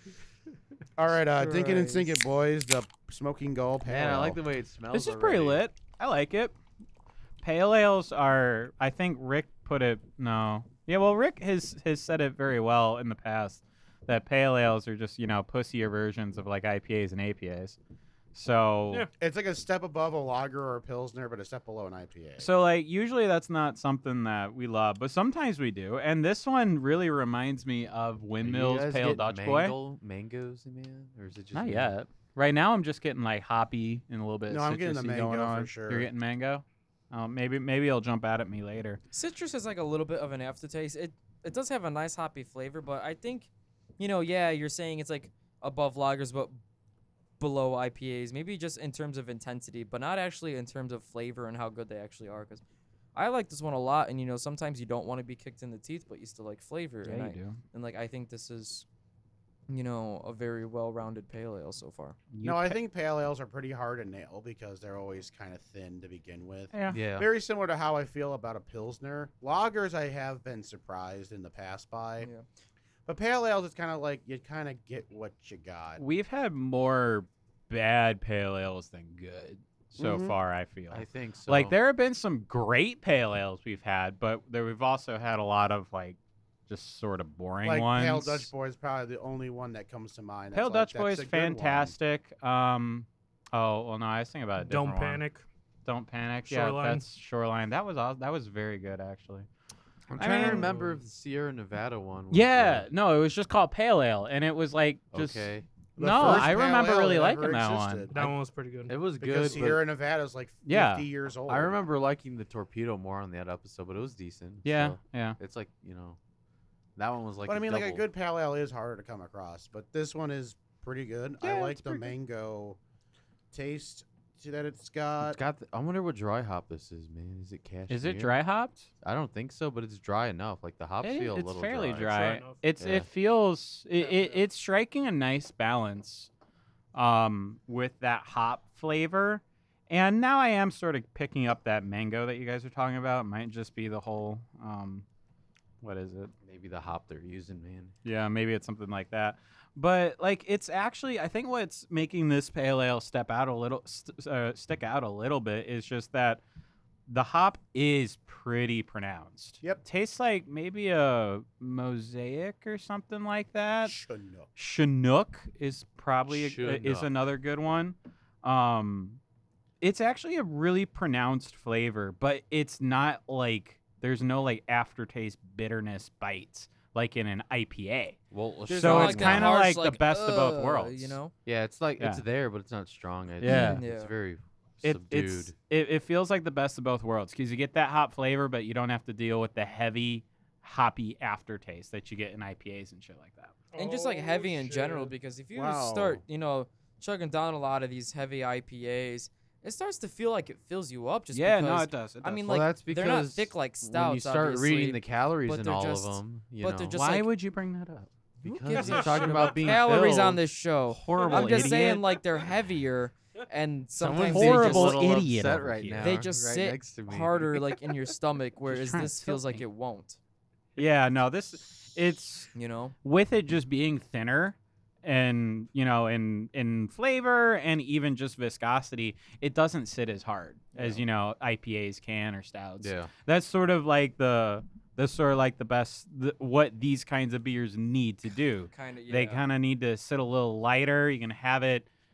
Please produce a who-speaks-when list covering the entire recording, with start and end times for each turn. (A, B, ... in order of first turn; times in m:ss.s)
0:01.0-0:04.4 A
0:01.4-0:02.2 B
0:03.8-0:05.6 C
0:04.9-0:06.5 D
0:07.4-0:17.8 D
0:18.3-0:19.1 D
0:19.2-0:22.5 A
0:22.4-0:29.8 D
0:28.4-0:31.9 C
0:31.5-0:39.0 D
0:34.5-0:36.1 A
0:39.1-0:46.6 B
0:47.4-0:52.6 B
0:53.1-0:58.8 B
0:57.0-0:57.6 D
0:59.7-1:02.2 B
1:02.3-1:02.8 D
1:02.4-1:12.3 A
1:06.7-1:07.0 D
1:06.9-1:07.3 C
1:12.2-1:12.4 B
1:13.0-1:16.0 A
1:16.0-1:26.2 D
1:20.0-1:20.3 A
1:20.9-1:21.8 C
1:26.7-1:28.5 D
1:27.6-1:31.9 A
1:30.5-1:35.2 D
1:34.6-1:35.4 E
1:35.8-1:39.5 D
1:36.5-1:37.0 E
1:40.1-1:42.9 C
1:40.2-1:40.7 D
1:42.3-1:48.3 D
1:45.1-1:46.5 C
1:46.0-1:48.1 A
1:48.1-1:49.0 E
1:48.9-1:49.8 C
1:49.2-1:51.8 A
1:50.6-1:51.1 D
1:51.5-1:56.2 C
1:54.6-1:55.4 D
1:57.0-1:58.0 C
1:57.4-2:02.8 A
2:01.4-2:02.1 D
2:03.5-2:05.4 A
2:05.2-2:08.3 C
2:07.9-2:08.9 D
2:09.0-2:12.1 C
2:11.0-2:16.3 D
2:11.9-2:12.7 E
2:12.8-2:13.1 C
2:14.0-2:14.4 E
2:16.9-2:25.0 D
2:25.8-2:26.3 D
2:26.4-2:27.9 C
2:28.0-2:36.4 D
2:37.1-2:44.0 D
2:43.8-2:44.5 A
2:44.6-2:49.2 D
2:46.3-2:47.1 C
2:49.8-2:58.2 D
2:58.3-2:59.6 C
2:58.7-3:01.3 B
2:58.7-3:01.2 D
3:01.4-3:05.5 C
3:02.0-3:02.2 D
3:03.4-3:03.8 D
3:03.4-3:04.1 B
3:04.8-3:13.5 D
3:13.7-3:15.1 E
3:13.7-3:27.3 B
3:15.5-3:16.2 A
3:21.3-3:22.5 D
3:22.4-3:27.0 C
3:26.9-3:28.1 D
3:28.4-3:30.4 C
3:28.4-3:35.0 B
3:28.6-3:29.5 D
3:28.7-3:29.9 E
3:30.9-3:32.2 D
3:31.1-3:31.8 E
3:34.0-3:37.5 C
3:34.2-3:36.2 D
3:36.0-3:40.2 B
3:38.7-3:39.6 D
3:40.8-4:01.8 D
3:42.5-3:42.9 B
3:50.7-3:51.0 B
3:52.8-3:53.1 C
3:58.7-3:59.4 B